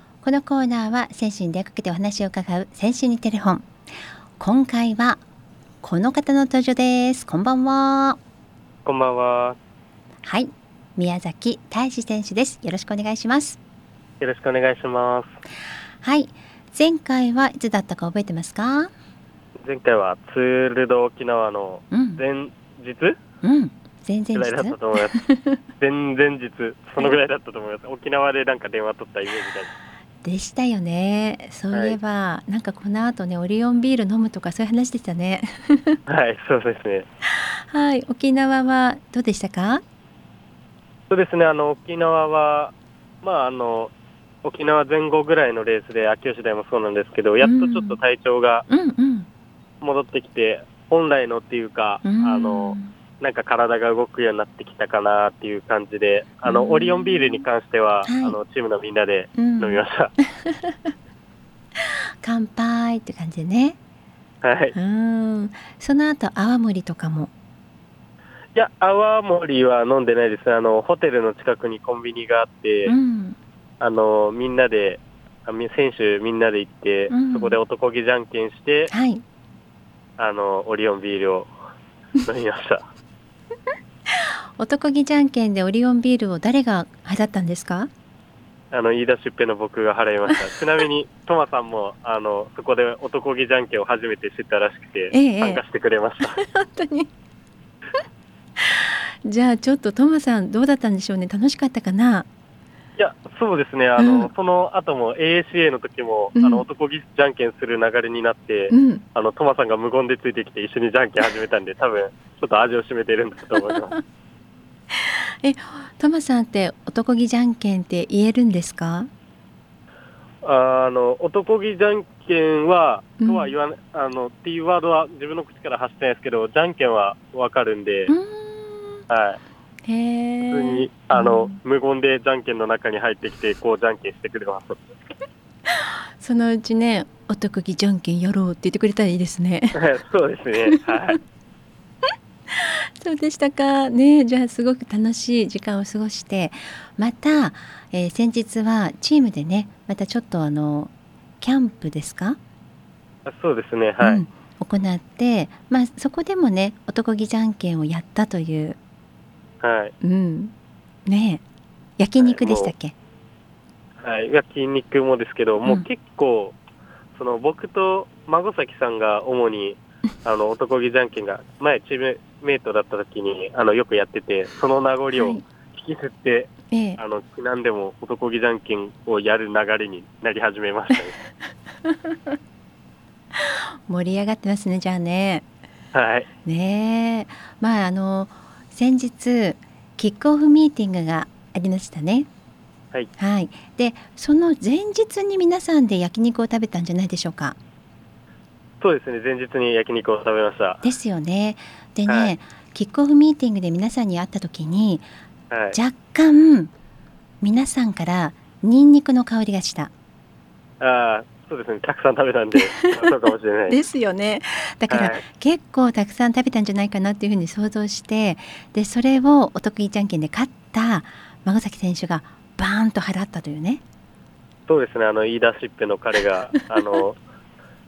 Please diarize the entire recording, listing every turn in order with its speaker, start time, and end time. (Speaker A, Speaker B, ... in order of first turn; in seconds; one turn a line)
Speaker A: 0.2-3.7
Speaker A: 4.4-5.2
Speaker A: 5.8-8.2
Speaker B: 8.8-9.6
Speaker A: 10.2-13.6
Speaker B: 14.2-15.3
Speaker A: 16.0-18.9
Speaker B: 19.6-23.1
Speaker A: 21.9-22.2
Speaker A: 23.4-25.6
Speaker B: 24.3-25.2
Speaker B: 25.8-29.7
Speaker A: 30.2-36.0
Speaker B: 31.7-32.0
Speaker B: 36.1-37.0
Speaker A: 37.3-39.8
Speaker B: 41.1-43.9
Speaker B: 44.4-48.6
Speaker A: 47.4-48.0
Speaker A: 48.7-49.3
Speaker B: 49.8-60.1
Speaker A: 52.0-52.9
Speaker A: 56.4-57.4
Speaker A: 58.0-58.4
Speaker A: 59.4-60.9
Speaker A: 61.8-63.8
Speaker B: 64.4-64.7
Speaker A: 64.7-67.3
Speaker B: 68.5-73.0
Speaker A: 72.8-73.4
Speaker B: 73.8-78.9
Speaker A: 77.1-77.6
Speaker A: 78.9-79.2
Speaker B: 80.2-81.5
Speaker B: 82.2-82.8
Speaker A: 84.1-87.9
Speaker B: 88.7-96.4
Speaker A: 95.1-95.6
Speaker A: 96.2-97.1
Speaker A: 98.6-102.3
Speaker B: 103.0-114.0
Speaker A: 104.0-104.3
Speaker A: 106.3-106.6
Speaker A: 108.7-109.0
Speaker A: 114.9-119.1
Speaker B: 120.4-128.1
Speaker A: 123.2-123.5
Speaker A: 128.1-129.0
Speaker B: 129.1-129.4
Speaker A: 129.9-131.6
Speaker B: 130.4-134.8
Speaker A: 135.7-139.8
Speaker B: 139.7-141.2
Speaker A: 142.5-152.4
Speaker B: 153.2-154.2
Speaker A: 154.0-158.8
Speaker B: 159.6-159.9
Speaker A: 160.0-160.5
Speaker A: 161.1-161.4
Speaker A: 162.0-162.9
Speaker B: 162.2-162.7
Speaker B: 164.0-166.6
Speaker B: 167.2-181.2
Speaker A: 175.1-175.4
Speaker A: 176.7-177.0
Speaker A: 181.8-182.3
Speaker A: 183.4-185.4
Speaker B: 185.9-186.3
Speaker A: 186.4-192.3
Speaker A: 193.2-197.6
Speaker B: 198.8-200.8
Speaker A: 200.8-205.1
Speaker B: 202.1-202.3
Speaker B: 205.5-205.8
Speaker A: 205.7-206.7
Speaker A: 207.4-209.9
Speaker B: 210.8-213.8
Speaker A: 212.6-213.1
Speaker A: 213.7-223.8
Speaker B: 214.9-215.2
Speaker B: 224.7-227.2
Speaker A: 226.5-227.0